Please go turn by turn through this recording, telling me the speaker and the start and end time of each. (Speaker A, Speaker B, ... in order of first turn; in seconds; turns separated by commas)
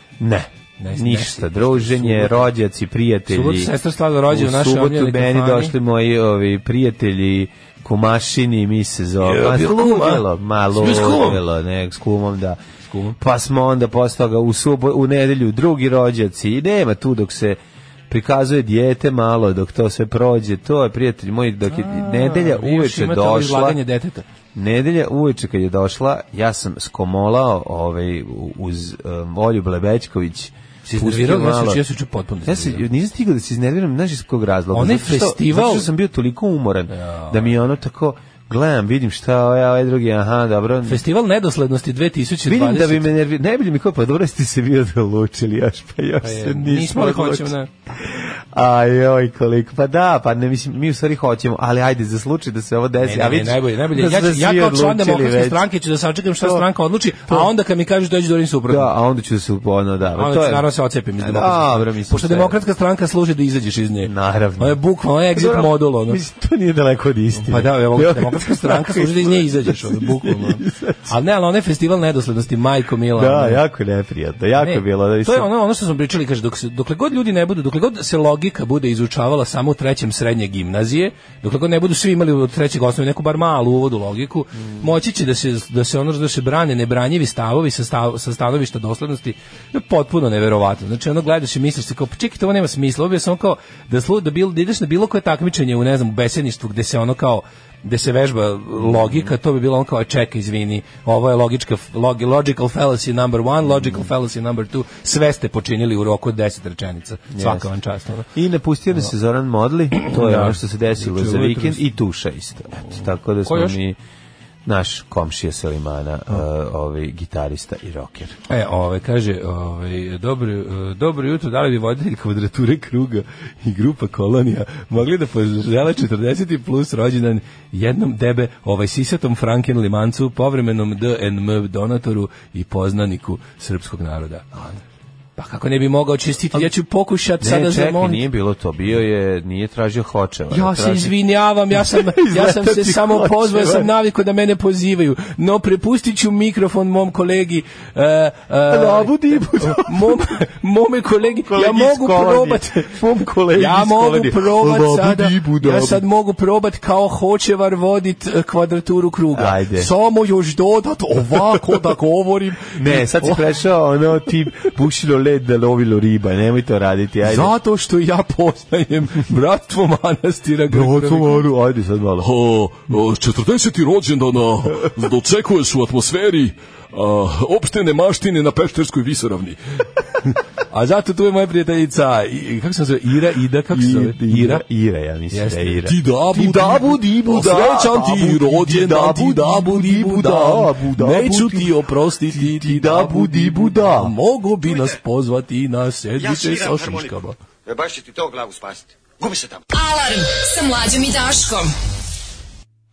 Speaker A: 0.2-3.7, Speaker B: 0.8-2.5, Speaker B: 3.3-5.7, Speaker A: 4.3-12.6, Speaker B: 9.2-11.4, Speaker B: 12.9-13.2, Speaker A: 13.2-23.8, Speaker B: 21.7-24.2, Speaker A: 24.5-31.8, Speaker B: 30.9-32.8, Speaker A: 32.5-41.0, Speaker B: 34.7-35.9, Speaker B: 36.9-37.5, Speaker B: 40.9-43.1, Speaker A: 42.5-55.6, Speaker B: 46.2-47.7, Speaker B: 53.0-58.9, Speaker A: 56.4-56.6, Speaker A: 58.7-62.6, Speaker B: 60.1-66.2, Speaker A: 64.0-64.8, Speaker A: 65.3-71.1, Speaker B: 67.3-73.6, Speaker A: 73.1-75.5, Speaker B: 74.6-108.3, Speaker A: 98.8-99.3, Speaker A: 103.7-104.0, Speaker A: 107.3-107.7, Speaker A: 108.3-114.0, Speaker B: 110.0-111.8, Speaker B: 113.5-113.8, Speaker A: 114.7-118.4, Speaker B: 118.5-134.5, Speaker B: 135.4-138.2, Speaker A: 137.4-141.1, Speaker B: 140.5-152.9, Speaker A: 141.7-143.9, Speaker A: 148.7-150.2, Speaker A: 151.4-156.0, Speaker B: 153.5-163.4, Speaker A: 159.3-159.9, Speaker A: 162.8-167.5, Speaker B: 167.2-171.5, Speaker A: 170.7-172.3, Speaker C: 172.2-179.6, Speaker B: 180.7-184.6, Speaker A: 183.7-191.7, Speaker B: 185.3-185.8, Speaker C: 185.8-189.4, Speaker B: 186.6-197.4, Speaker A: 192.3-194.1, Speaker D: 196.4-196.7, Speaker D: 197.7-199.5, Speaker E: 199.7-201.7